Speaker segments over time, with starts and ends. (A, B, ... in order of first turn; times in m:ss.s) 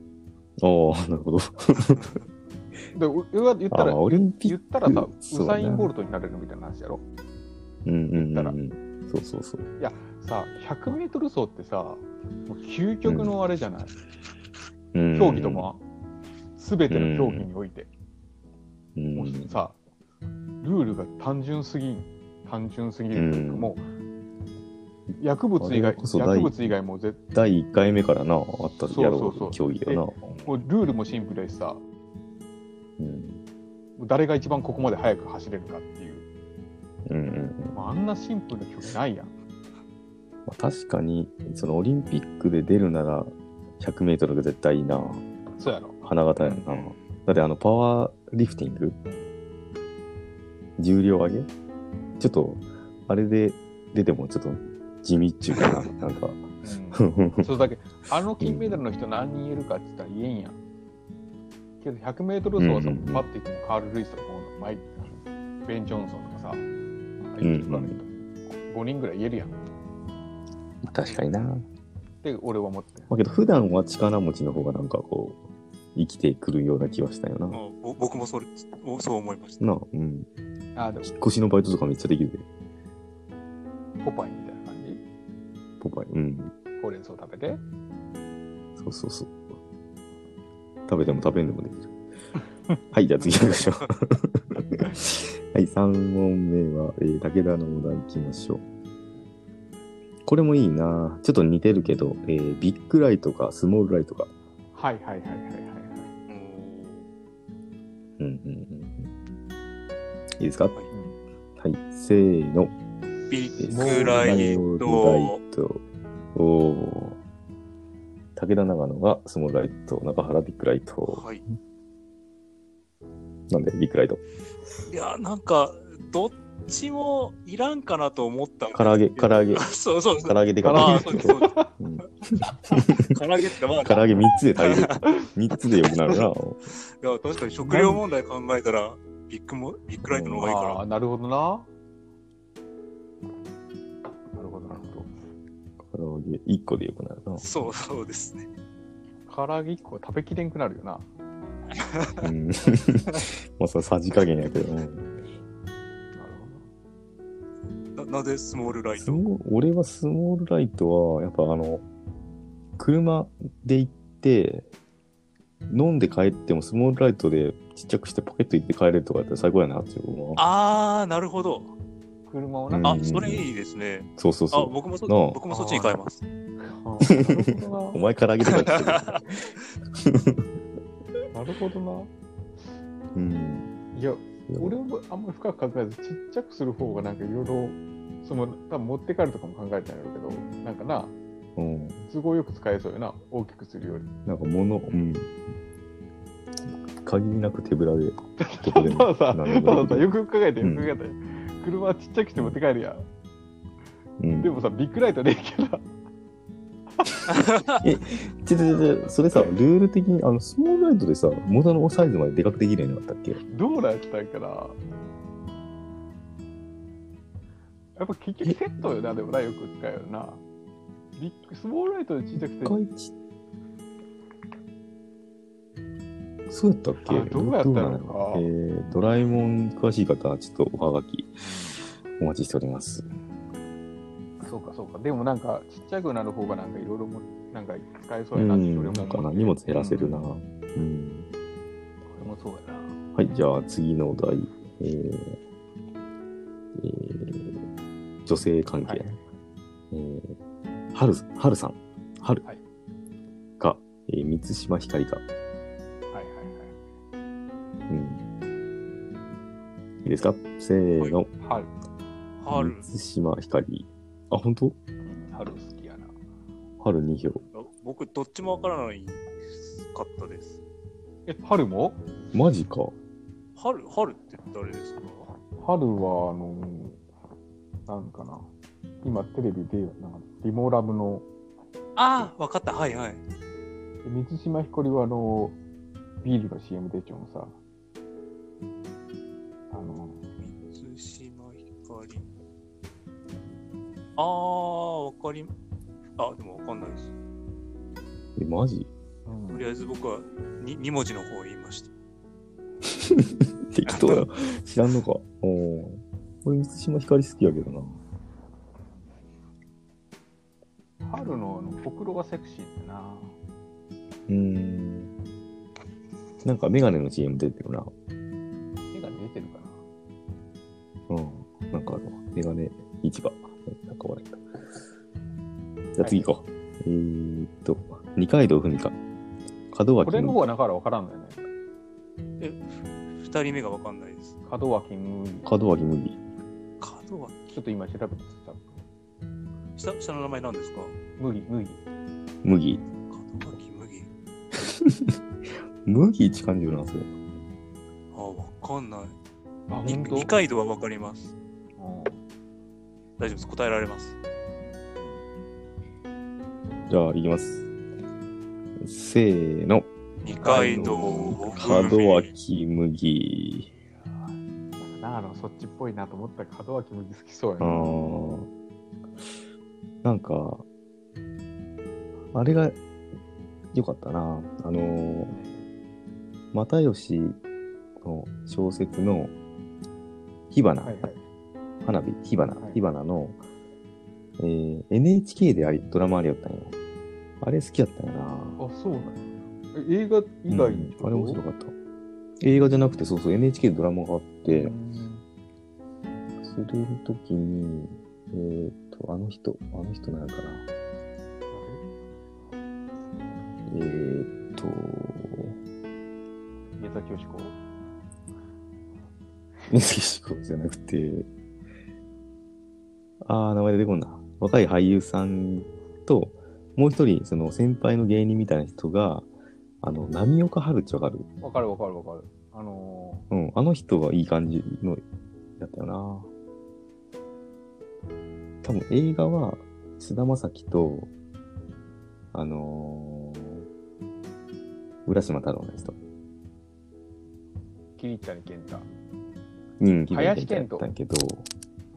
0:00.6-0:02.1 A
0:02.9-0:07.0 B
0:03.7-0:05.9 A
0:07.8-0:09.7 A
0:08.2-0:08.6 B
0:09.8-0:14.0 B
0:13.0-0:13.3 A
0:14.9-0:15.7 A
0:15.1-0:15.8 B
0:16.6-0:17.9 B
0:16.9-0:17.5 A
0:19.0-0:19.6 A
0:19.2-0:19.8 B
0:20.6-0:23.8 B
0:23.1-0:23.7 A
0:25.2-0:27.2 B
0:25.6-0:26.7 A
0:27.3-0:30.5 A
0:28.8-0:31.8 B
0:33.0-0:33.4 A
0:34.0-0:36.3 B
0:37.1-0:37.8 A
0:37.7-0:39.3 B
0:40.5-0:45.2 A
0:45.6-0:46.7 B
0:46.0-0:49.0 A
0:46.7-0:47.1 C
0:49.0-0:49.3 B
0:50.8-0:51.5 A
0:52.2-0:57.5 A
0:55.6-0:55.8 C
0:56.6-1:00.6 B
0:58.4-0:58.8 A
1:01.8-1:06.6 B
1:02.6-1:03.3 A
1:07.2-1:09.6 B
1:07.4-1:08.0 A
1:10.8-1:11.6 A
1:12.2-1:13.1 B
1:13.1-1:15.4 A
1:16.0-1:17.6 A
1:17.5-1:19.7 C
1:19.6-1:20.3 A
1:20.8-1:21.2 B
1:21.0-1:22.4 A
1:24.0-1:25.0 B
1:25.8-1:26.5 A
1:26.8-1:27.6 B
1:28.8-1:29.4 A
1:30.9-1:31.9 A
1:32.9-1:38.6 A
1:40.2-1:44.3 A
1:44.7-1:46.1 B
1:46.3-1:47.1 C
1:48.2-1:49.1 A
1:50.4-1:50.8 A
1:50.9-1:51.2 B
1:51.6-1:52.8 A
1:53.3-1:54.6 B
1:53.3-1:55.4 C
1:53.6-1:55.8 A
1:56.4-1:57.2 A
1:58.4-2:01.2 A
2:01.1-2:01.4 C
2:03.5-2:04.2 A
2:04.9-2:11.6 C
2:08.7-2:09.7 A
2:10.2-2:13.1 A
2:10.6-2:11.7 B
2:12.7-2:15.0 C
2:13.8-2:16.6 A
2:17.0-2:20.8 C
2:17.7-2:18.0 A
2:20.0-2:20.5 A
2:20.4-2:21.7 B
2:24.3-2:25.1 B
2:25.8-2:27.4 A
2:27.4-2:28.5 C
2:29.3-2:31.1 B
2:31.8-2:32.3 C
2:32.2-2:35.1 A
2:36.2-2:36.7 B
2:38.0-2:39.2 C
2:39.0-2:41.8 A
2:42.8-2:44.7 A
2:45.7-2:50.4 A
2:50.4-2:51.7 C
2:52.3-2:53.0 B
2:52.7-2:53.5 A
2:52.8-2:56.2 C
2:54.2-2:55.4 A
2:55.5-2:56.0 B
2:56.6-2:58.0 B
2:57.1-3:00.5 A
2:58.5-2:59.2 C
3:01.3-3:02.1 B
3:03.2-3:03.7 A
3:03.9-3:11.1 B
3:04.5-3:04.8 A
3:11.6-3:12.0 A
3:12.1-3:14.1 B
3:14.3-3:15.3 A
3:17.0-3:20.1 A
3:18.4-3:23.0 B
3:20.6-3:20.9 A
3:24.2-3:24.5 A
3:24.4-3:25.8 B
3:27.0-3:27.3 B
3:27.4-3:27.8 C
3:27.8-3:33.4 A
3:33.5-3:34.8 B
3:38.0-3:40.4 B
3:41.2-3:42.8 B
3:42.6-3:43.1 A
3:46.5-3:51.4 A
3:47.0-3:48.5 B
3:51.4-3:51.9 B
3:52.2-3:53.1 A
3:54.4-4:00.3 B
3:58.3-4:01.3 A
4:02.2-4:03.0 B
4:03.2-4:05.4 A
4:06.8-4:07.6 A
4:08.3-4:09.2 A
4:08.8-4:09.2 B
4:09.9-4:10.4 A
4:10.9-4:12.4 A
4:13.6-4:15.2 A
4:16.1-4:16.8 B
4:17.9-4:18.2 A
4:20.0-4:21.3 A
4:21.4-4:21.7 B
4:22.4-4:22.9 C
4:22.5-4:24.8 A
4:25.0-4:26.1 B
4:26.8-4:27.4 A
4:27.5-4:30.6 C
4:31.3-4:32.0 B
4:32.3-4:32.9 A
4:33.6-4:35.3 C
4:35.6-4:37.0 B
4:37.9-4:38.5 B
4:39.0-4:41.3 B
4:42.0-4:43.2 C
4:44.0-4:45.6 B
4:46.2-4:47.6 B
4:49.7-4:50.3 B
4:50.4-4:52.3 C
4:54.2-4:55.5 C
4:56.2-4:57.1 C
4:58.4-4:58.9 A
4:59.3-4:59.6 B
4:59.5-5:01.9 C
5:02.9-5:08.0 A
5:03.9-5:04.2 C
5:11.0-5:13.3 B
5:14.3-5:15.1 A
5:16.4-5:17.9 A
5:18.9-5:19.8 B
5:21.1-5:24.4 A
5:26.0-5:29.0 A
5:26.0-5:26.3 B
5:29.7-5:30.4 A
5:30.0-5:31.4 B
5:32.4-5:34.4 C
5:34.5-5:35.5 B
5:35.5-5:36.2 A
5:36.8-5:37.6 C
5:37.5-5:38.8 B
5:39.8-5:41.0 C
5:41.2-5:41.8 B
5:42.4-5:42.8 A
5:43.1-5:44.1 C
5:44.6-5:47.1 A
5:48.1-5:49.2 C
5:49.7-5:50.3 B
5:49.8-5:51.3 C
5:51.8-5:52.2 B
5:53.2-5:54.2 C
5:55.0-5:55.2 B
5:56.9-5:57.6 A
5:58.8-5:59.9 A
6:00.2-6:02.3 C
6:00.4-6:01.9 B
6:00.7-6:03.7 A
6:04.8-6:08.0 B
6:07.6-6:08.5 A
6:10.0-6:10.6 A
6:12.3-6:12.8 A
6:13.7-6:15.3 A
6:15.3-6:15.7 B
6:16.5-6:17.4 A
6:18.0-6:19.3 A
6:20.5-6:21.1 A
6:20.8-6:21.2 B
6:21.8-6:23.4 A
6:24.4-6:26.7 A
6:27.4-6:28.6 A
6:28.6-6:31.4 B
6:30.5-6:31.7 A
6:32.4-6:34.7 A
6:34.4-6:35.2 B
6:36.4-6:40.6 A
6:41.5-6:41.8 B
6:43.7-6:45.6 A
6:46.8-6:47.6 B
6:49.7-6:51.3 A
6:53.2-6:59.3 A
6:59.8-7:01.3 A
7:01.4-7:03.3 B
7:03.3-7:05.0 A
7:05.6-7:06.3 A
7:08.6-7:11.1 A
7:12.3-7:13.7 A
7:15.1-7:16.0 A
7:18.0-7:18.9 B
7:19.8-7:21.5 A
7:20.1-7:20.9 B